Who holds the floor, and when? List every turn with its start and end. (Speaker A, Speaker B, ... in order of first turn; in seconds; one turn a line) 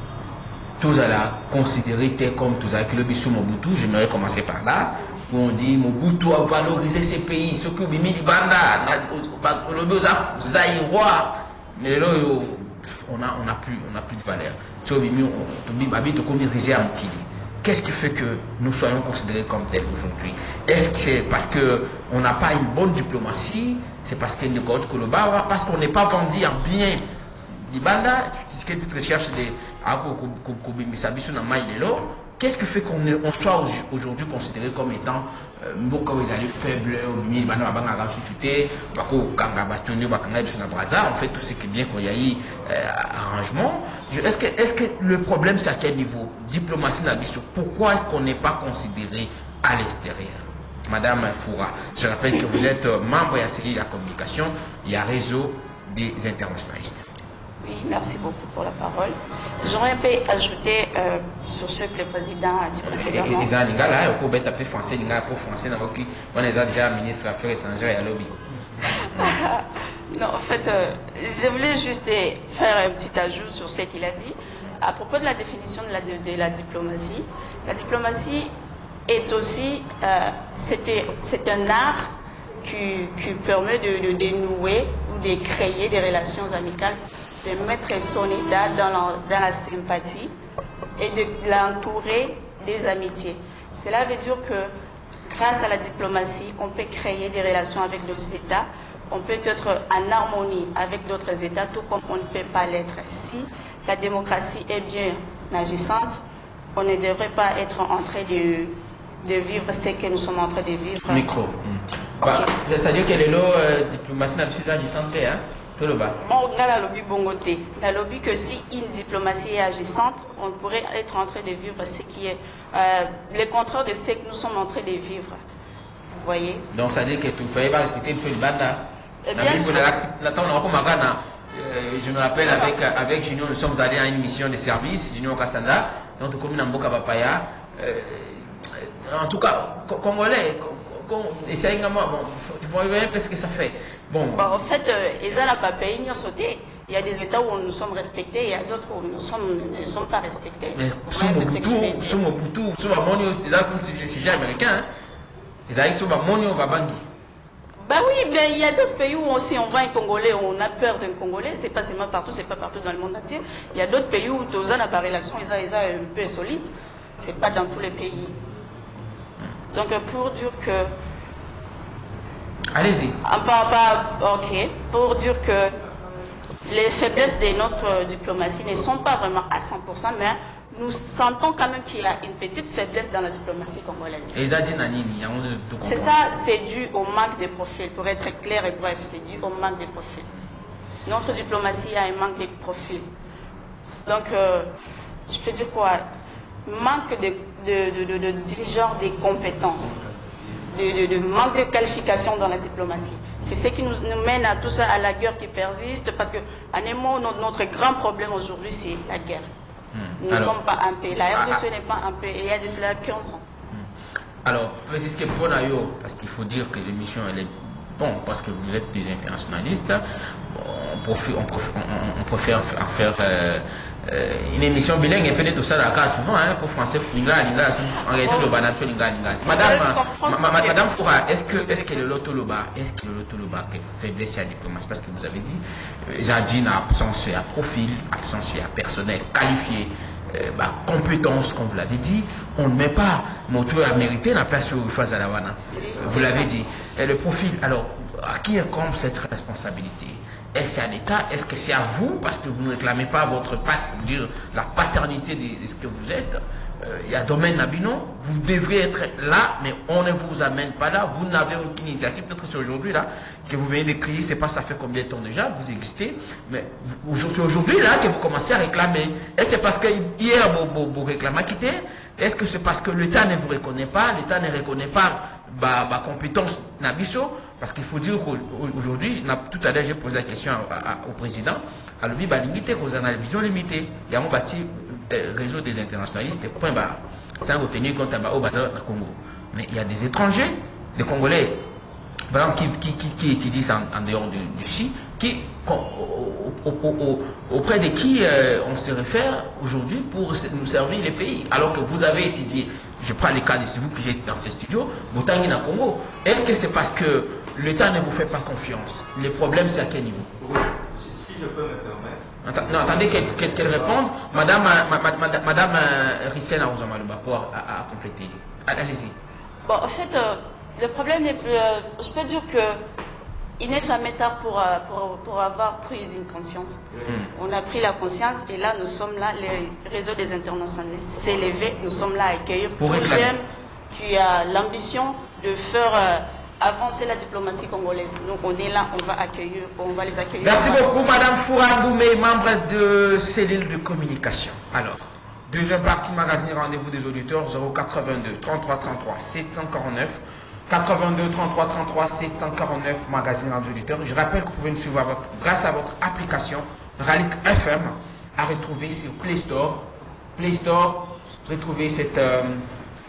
Speaker A: 0.8-57.0
Speaker B: 57.6-63.5
Speaker A: 62.9-68.4
Speaker A: 68.9-69.3
Speaker B: 69.0-78.5
Speaker B: 79.1-82.1
Speaker B: 82.6-90.3
Speaker B: 91.0-94.7
Speaker B: 95.3-106.2
Speaker B: 106.8-111.3
Speaker A: 111.1-116.2
Speaker B: 112.2-112.5
Speaker B: 116.2-125.4
Speaker B: 126.1-126.7
Speaker A: 126.7-144.7
Speaker B: 129.2-129.9
Speaker B: 132.4-132.7
Speaker B: 144.3-152.2
Speaker A: 150.8-154.9
Speaker A: 155.7-157.0
Speaker B: 157.8-168.3
Speaker B: 169.7-170.9
Speaker A: 172.7-173.2
Speaker B: 173.2-175.7
Speaker B: 176.7-184.4
Speaker A: 184.3-186.2
Speaker B: 185.8-190.3
Speaker B: 191.1-193.1
Speaker B: 194.1-194.7
Speaker B: 195.3-196.0
Speaker B: 196.7-200.0
Speaker B: 200.7-209.5
Speaker A: 209.9-210.6
Speaker B: 210.2-213.4
Speaker A: 211.3-211.6
Speaker A: 214.4-291.6
Speaker B: 228.2-228.6
Speaker B: 229.4-230.9
Speaker B: 231.5-232.1
Speaker B: 245.7-246.5
Speaker A: 292.3-310.3
Speaker C: 310.4-314.0
Speaker A: 312.4-319.1
Speaker B: 319.6-322.9
Speaker B: 323.6-341.1
Speaker A: 332.8-333.3
Speaker A: 340.4-362.7